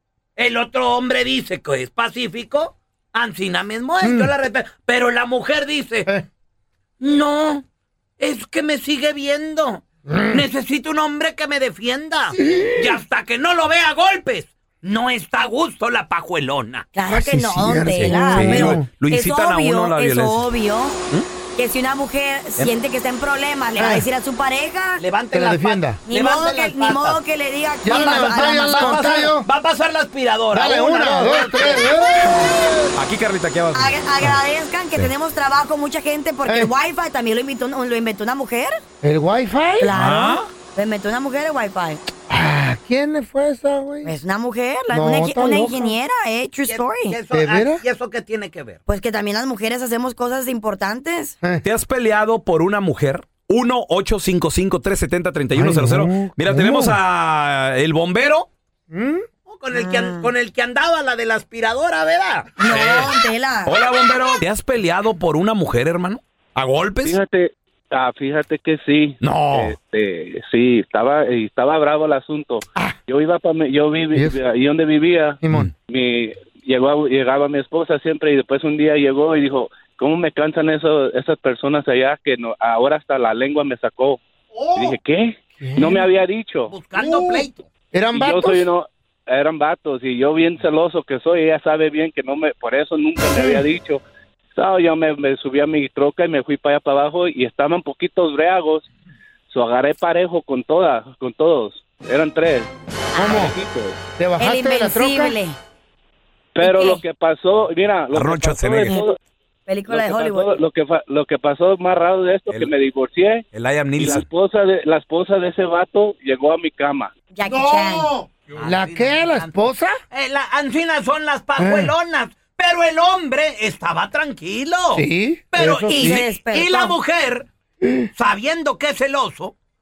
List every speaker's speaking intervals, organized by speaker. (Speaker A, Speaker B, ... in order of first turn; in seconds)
Speaker A: 0.4-6.1, 7.0-7.6, 8.2-16.9, 25.0-27.2, 27.9-31.9, 46.7-48.8, 59.5-62.6, 86.7-87.6, 118.6-119.6, 120.1-127.5, 128.1-129.5
Speaker B: 4.0-4.3, 10.1-10.4, 12.4-12.8, 17.1-18.9, 23.8-24.1, 25.3-26.0, 27.8-29.5, 30.5-32.9, 36.5-36.7, 39.0-39.9, 42.3-44.1, 44.9-45.9, 47.3-47.8, 55.5-57.0, 58.9-59.2, 75.4-75.7, 84.5-84.9, 85.6-86.1, 87.0-88.7, 93.3-93.6, 103.2-103.5, 104.2-105.4, 117.5-120.0, 121.6-121.9, 124.9-126.2, 127.8-128.1
Speaker C: 16.9-25.0, 26.1-29.1, 33.7-38.8, 39.8-42.0, 44.0-47.1, 48.9-51.4, 59.7-60.3, 62.6-63.8, 103.2-103.4, 104.4-105.6, 106.6-107.0, 109.7-110.6, 117.3-118.1, 125.9-126.9
Speaker D: 17.9-20.5, 33.0-34.0, 39.9-40.4, 51.6-58.5, 62.6-63.1, 63.7-67.2, 69.2-69.7, 108.1-109.0, 113.5-114.2
Speaker E: 67.0-84.2, 84.7-86.7, 88.1-94.0, 94.5-98.8, 99.5-104.0, 106.5-109.2, 109.9-113.4, 114.0-117.1